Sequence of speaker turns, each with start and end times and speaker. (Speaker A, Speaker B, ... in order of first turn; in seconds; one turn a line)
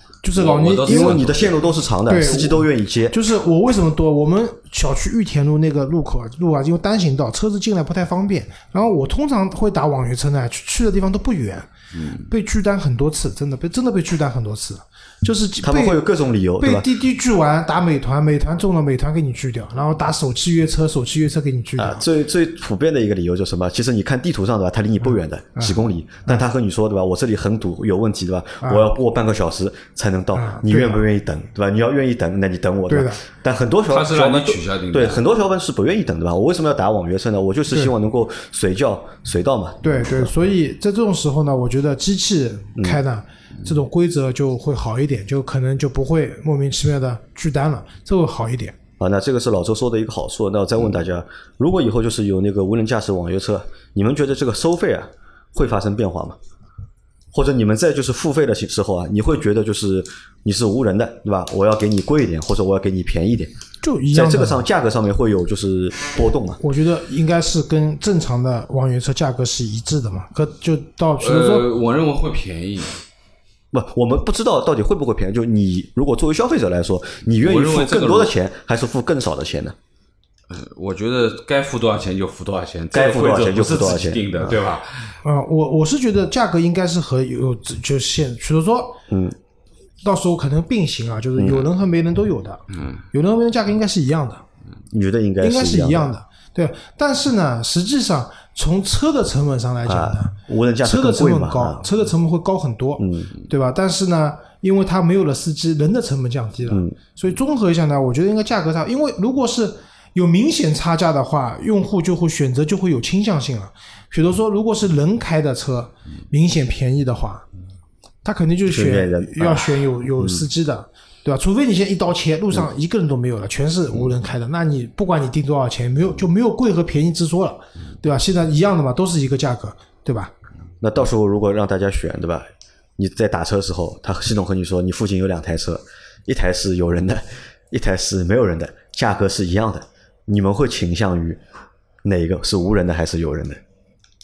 Speaker A: 0.2-1.2
Speaker B: 0.3-1.6
Speaker C: 0.8-3.2
Speaker A: 2.1-11.7
Speaker B: 11.9-12.2
Speaker A: 12.2-16.0
Speaker C: 15.6-16.9
Speaker A: 16.6-22.0
Speaker C: 21.8-40.3
Speaker A: 28.6-28.9
Speaker A: 30.4-31.0
Speaker A: 32.9-33.2
Speaker B: 33.9-35.2
Speaker A: 39.8-48.8
Speaker C: 49.0-56.4
Speaker C: 57.3-63.5
Speaker A: 63.8-64.6
Speaker C: 64.1-66.6
Speaker A: 66.6-71.7
Speaker B: 71.2-73.0
Speaker C: 73.7-79.8
Speaker B: 77.4-78.3
Speaker B: 80.5-85.2
Speaker C: 82.9-84.6
Speaker A: 85.2-89.0
Speaker C: 89.1-89.4
Speaker A: 90.0-92.6
Speaker C: 91.4-91.7
Speaker B: 92.8-93.0
Speaker A: 93.1-94.4
Speaker C: 94.9-96.1
Speaker A: 95.4-117.5
Speaker C: 99.9-101.9
Speaker C: 103.0-103.3
Speaker C: 106.7-107.0
Speaker A: 118.2-130.3
Speaker C: 118.7-120.4
Speaker C: 130.8-141.4
Speaker C: 142.0-143.6